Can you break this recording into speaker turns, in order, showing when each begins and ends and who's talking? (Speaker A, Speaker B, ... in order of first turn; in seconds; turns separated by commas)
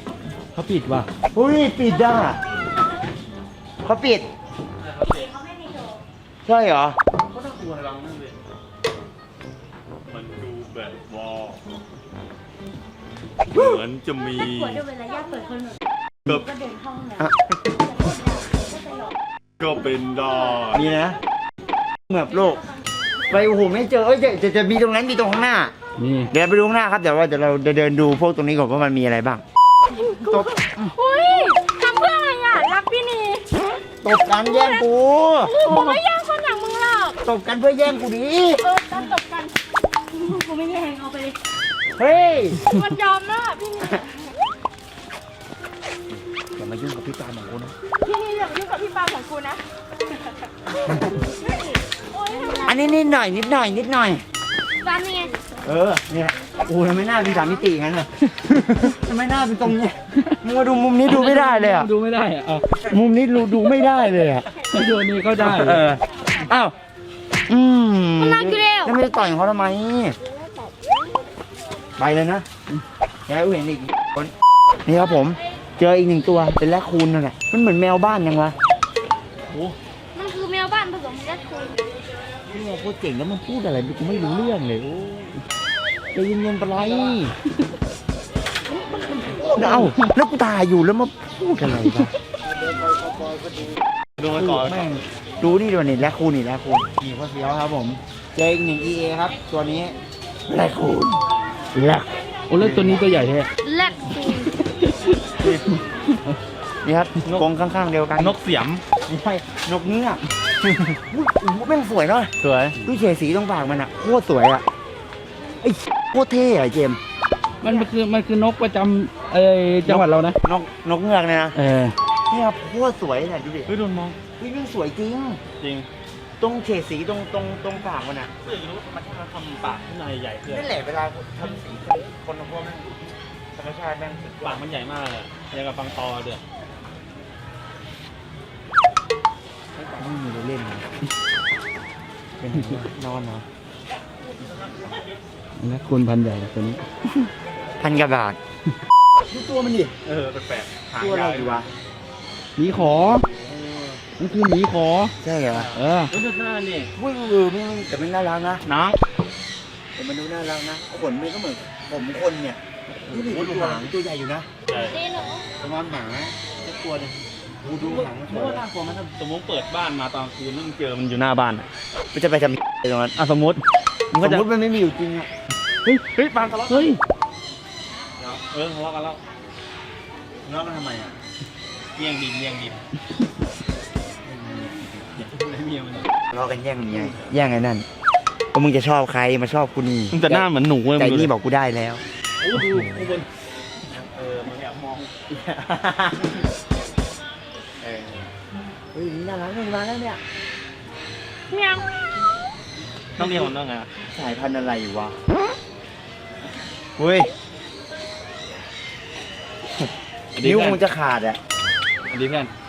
Speaker A: 0.6-1.1, Speaker B: 1.3-2.4, Speaker B: 3.8-4.3, Speaker C: 4.8-5.3, Speaker D: 5.0-6.0, Speaker B: 6.5-7.0, Speaker C: 7.2-8.4, Speaker C: 10.1-11.6, Speaker C: 13.5-14.8, Speaker D: 14.4-17.3, Speaker D: 17.8-19.1, Speaker C: 19.6-20.8, Speaker B: 20.7-21.2, Speaker B: 22.1-22.6, Speaker B: 23.3-25.7, Speaker A: 26.0-26.3, Speaker B: 26.3-29.4, Speaker E: 29.9-33.5, Speaker B: 30.2-30.9, Speaker B: 34.0-35.6, Speaker E: 34.4-34.8, Speaker E: 35.4-37.2, Speaker B: 37.2-38.6, Speaker E: 38.6-39.5, Speaker D: 40.2-41.4, Speaker B: 42.0-42.6, Speaker E: 42.7-44.3, Speaker B: 46.1-47.7, Speaker E: 48.0-49.6, Speaker E: 51.4-53.0, Speaker B: 52.6-54.2, Speaker E: 54.8-55.4, Speaker B: 55.6-58.1, Speaker B: 58.8-61.9, Speaker A: 61.1-62.6, Speaker B: 62.9-64.5, Speaker A: 64.7-65.8, Speaker B: 65.4-66.7, Speaker B: 67.5-70.2, Speaker E: 68.2-69.0, Speaker B: 72.0-72.5, Speaker B: 73.3-74.3, Speaker B: 74.9-78.6, Speaker C: 79.5-79.8, Speaker E: 80.1-82.0, Speaker B: 82.5-85.4, Speaker B: 86.1-87.3, Speaker B: 89.4-92.1, Speaker A: 89.7-89.9, Speaker C: 94.2-94.8, Speaker B: 94.3-100.0, Speaker B: 100.5-101.2, Speaker B: 101.8-102.1, Speaker A: 102.5-103.5, Speaker B: 102.6-103.0, Speaker E: 103.6-104.7, Speaker A: 106.1-106.4, Speaker B: 106.8-108.4, Speaker C: 108.2-108.8, Speaker B: 109.1-110.2, Speaker C: 110.6-111.0, Speaker B: 111.1-112.3, Speaker C: 112.4-112.8, Speaker B: 112.8-114.7, Speaker B: 115.6-117.0, Speaker A: 117.6-120.4, Speaker B: 119.9-121.6, Speaker A: 121.5-122.0, Speaker B: 122.3-123.7, Speaker C: 123.7-124.2, Speaker B: 124.4-125.4, Speaker C: 125.6-125.9, Speaker B: 126.4-128.3, Speaker C: 128.4-130.7, Speaker B: 130.5-134.6, Speaker C: 134.4-136.4, Speaker B: 139.8-140.9, Speaker B: 142.4-143.5, Speaker C: 144.4-145.2, Speaker A: 145.6-146.8, Speaker B: 147.8-148.4, Speaker B: 149.3-149.9, Speaker C: 150.1-151.6, Speaker B: 151.0-151.7, Speaker A: 152.6-153.3, Speaker C: 153.4-154.0, Speaker A: 154.2-155.1, Speaker B: 155.2-155.7, Speaker C: 155.5-156.9, Speaker A: 155.8-156.1, Speaker B: 157.0-158.6, Speaker C: 158.7-159.0, Speaker B: 160.0-164.5, Speaker C: 163.1-163.9, Speaker C: 164.7-165.0, Speaker E: 164.8-165.5, Speaker B: 165.6-167.1, Speaker C: 166.7-167.2, Speaker B: 167.6-168.6, Speaker C: 167.8-171.7, Speaker B: 172.1-173.1, Speaker C: 173.2-173.6, Speaker C: 174.1-174.5, Speaker B: 174.2-175.3, Speaker A: 175.8-176.1, Speaker C: 176.2-177.0, Speaker A: 176.7-177.0, Speaker C: 178.2-179.2, Speaker B: 180.4-181.2, Speaker C: 181.9-182.8, Speaker B: 184.3-184.7, Speaker C: 184.3-186.1, Speaker B: 186.3-187.8, Speaker C: 186.9-187.2, Speaker B: 188.5-192.0, Speaker C: 190.1-191.3, Speaker C: 192.4-193.3, Speaker C: 193.9-196.3, Speaker C: 197.8-198.3, Speaker B: 198.9-200.2, Speaker E: 201.5-201.8, Speaker C: 203.2-203.9, Speaker B: 204.1-205.2, Speaker B: 207.0-207.3, Speaker B: 209.8-211.4, Speaker C: 210.4-210.8, Speaker C: 212.1-212.5